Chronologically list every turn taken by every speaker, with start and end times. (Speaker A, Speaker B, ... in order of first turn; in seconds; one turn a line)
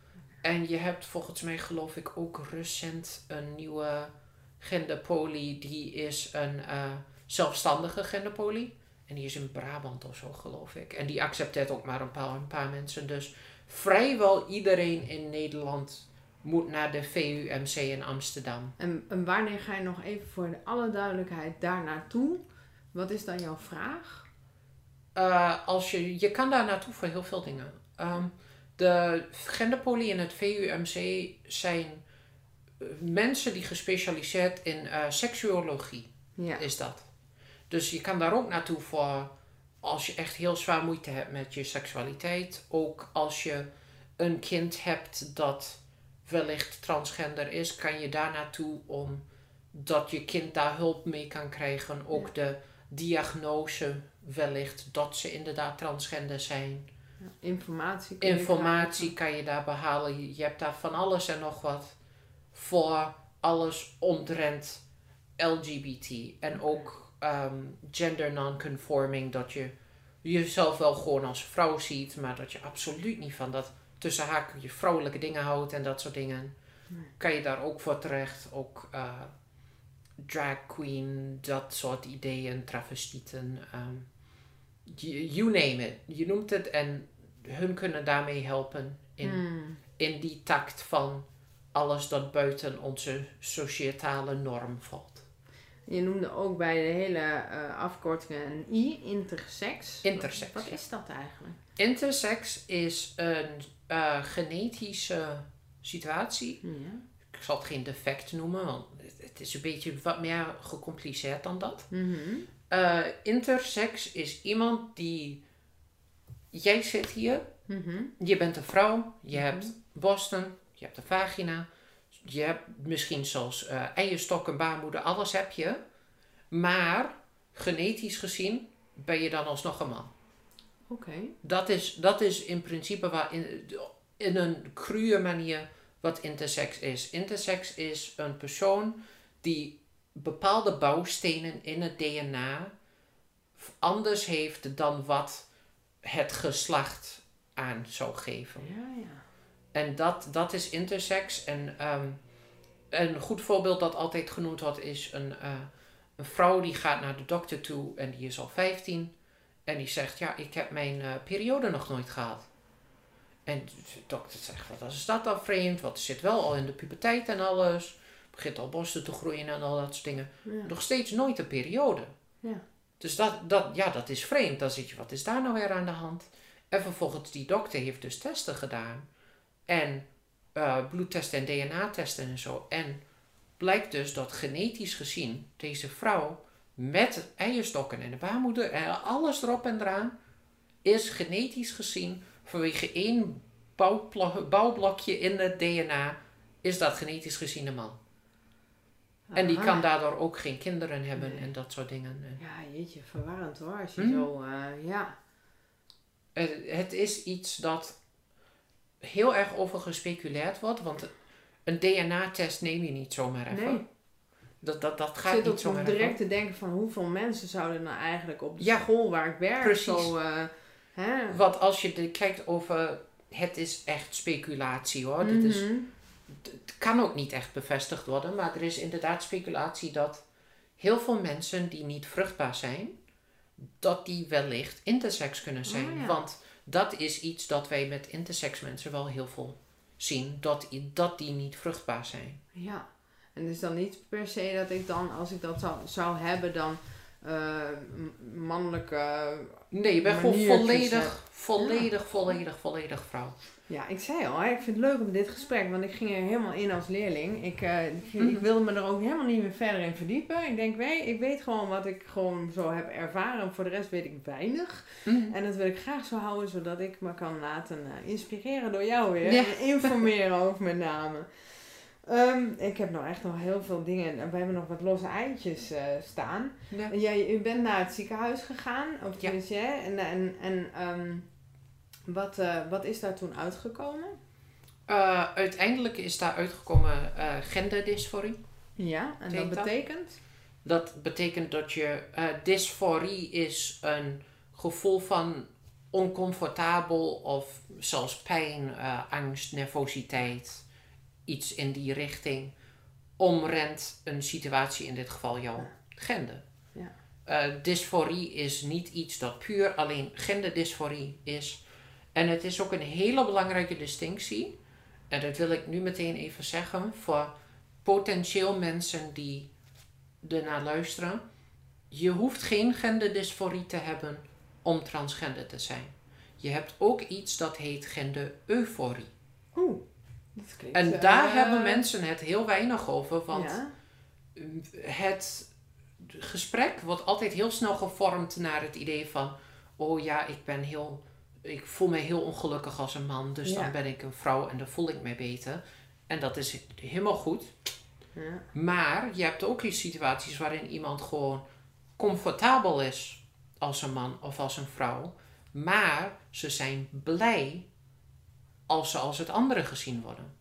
Speaker A: 0.4-18.8
Speaker B: 18.8-24.3
Speaker A: 25.1-32.0
Speaker A: 32.8-37.1
Speaker B: 36.4-36.6
Speaker A: 37.7-39.3
Speaker A: 39.8-56.9
Speaker B: 57.2-59.1
Speaker A: 58.2-62.0
Speaker A: 62.5-64.8
Speaker A: 65.4-76.5
Speaker A: 77.2-79.3
Speaker A: 80.2-84.1
Speaker A: 84.9-89.4
Speaker B: 89.2-89.8
Speaker A: 90.0-95.2
Speaker B: 95.9-101.6
Speaker A: 100.0-100.8
Speaker A: 101.8-106.6
Speaker B: 106.6-107.0
Speaker A: 107.3-111.9
Speaker B: 111.9-112.5
Speaker A: 112.7-115.4
Speaker A: 116.5-117.5
Speaker B: 117.7-118.1
Speaker A: 118.2-121.7
Speaker B: 119.3-119.7
Speaker A: 122.2-125.8
Speaker A: 126.5-130.1
Speaker B: 130.9-131.3
Speaker A: 131.4-142.7
Speaker A: 143.6-145.5
Speaker A: 146.0-148.7
Speaker B: 148.6-149.2
Speaker A: 149.7-152.2
Speaker A: 152.9-159.1
Speaker A: 159.7-162.5
Speaker A: 163.5-172.1
Speaker B: 170.4-170.7
Speaker A: 173.0-179.1
Speaker A: 179.7-183.0
Speaker A: 183.6-190.2
Speaker A: 190.8-198.0
Speaker B: 199.3-199.9
Speaker A: 199.3-202.4
Speaker B: 201.2-201.5
Speaker B: 202.4-205.2
Speaker A: 204.0-204.3
Speaker A: 206.3-208.0
Speaker A: 209.0-211.1
Speaker A: 211.7-213.9
Speaker B: 213.5-213.8
Speaker A: 214.6-216.2
Speaker B: 215.3-221.4
Speaker A: 218.6-218.9
Speaker A: 219.6-220.1
Speaker A: 221.3-225.7
Speaker B: 225.2-225.9
Speaker A: 226.3-230.2
Speaker A: 230.8-232.9
Speaker A: 233.6-242.4
Speaker B: 235.7-236.2
Speaker B: 242.5-252.4
Speaker A: 249.7-253.4
Speaker B: 253.7-281.3
Speaker A: 258.2-258.4
Speaker A: 265.1-265.3
Speaker A: 269.3-270.1
Speaker B: 282.1-284.2
Speaker A: 284.9-288.4
Speaker B: 288.8-290.2
Speaker A: 289.3-289.7
Speaker A: 290.6-300.6
Speaker A: 301.3-302.5
Speaker A: 303.2-306.4
Speaker A: 307.3-311.6
Speaker A: 312.1-314.6
Speaker A: 315.1-317.3
Speaker A: 317.8-319.5
Speaker A: 320.2-321.2
Speaker A: 321.9-329.1
Speaker B: 329.6-329.8
Speaker B: 330.4-331.9
Speaker A: 330.7-333.6
Speaker B: 333.3-333.7
Speaker A: 334.4-347.6
Speaker B: 343.4-343.7
Speaker B: 348.2-348.5
Speaker A: 348.5-351.4
Speaker A: 352.0-357.7
Speaker A: 358.7-360.3